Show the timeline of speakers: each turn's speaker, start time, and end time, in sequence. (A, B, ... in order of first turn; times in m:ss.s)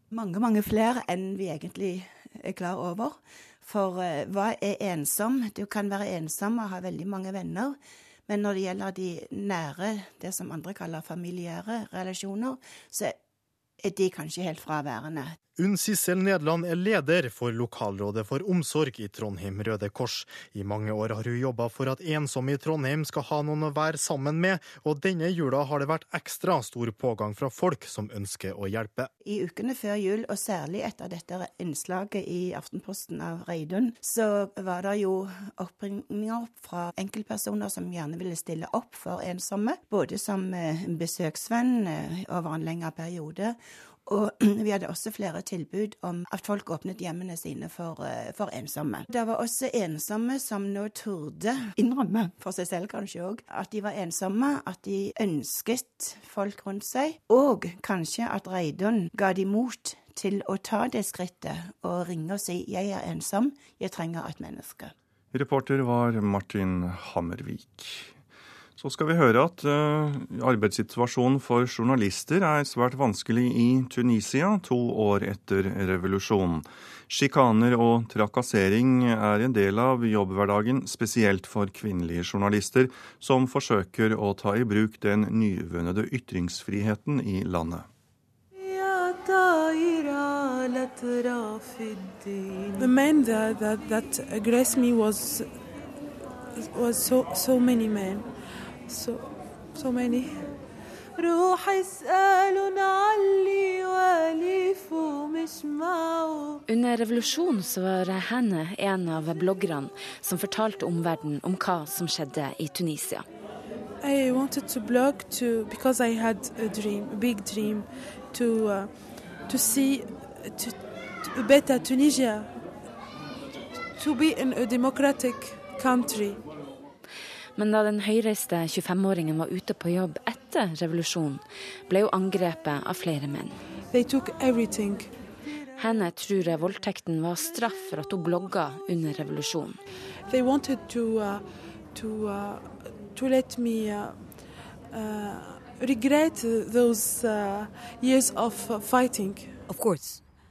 0:00.1-0:13.2 A
0:13.8-0:15.4 A
0:15.6-0:29.1 B
0:29.2-1:04.9 A
1:05.3-1:08.1 C
1:08.8-1:27.8 C
1:28.9-1:29.4 D
1:30.1-1:31.9 D
1:32.7-1:35.6 D
1:36.6-1:38.3 D
1:38.9-1:40.6 D
1:41.2-1:46.6 D
1:46.7-1:53.2 E
1:54.0-2:02.6 D
2:04.0-2:06.4 D
2:07.6-2:13.5 E
2:13.9-2:15.1 D
2:15.8-2:19.8 E
2:20.3-2:29.6 D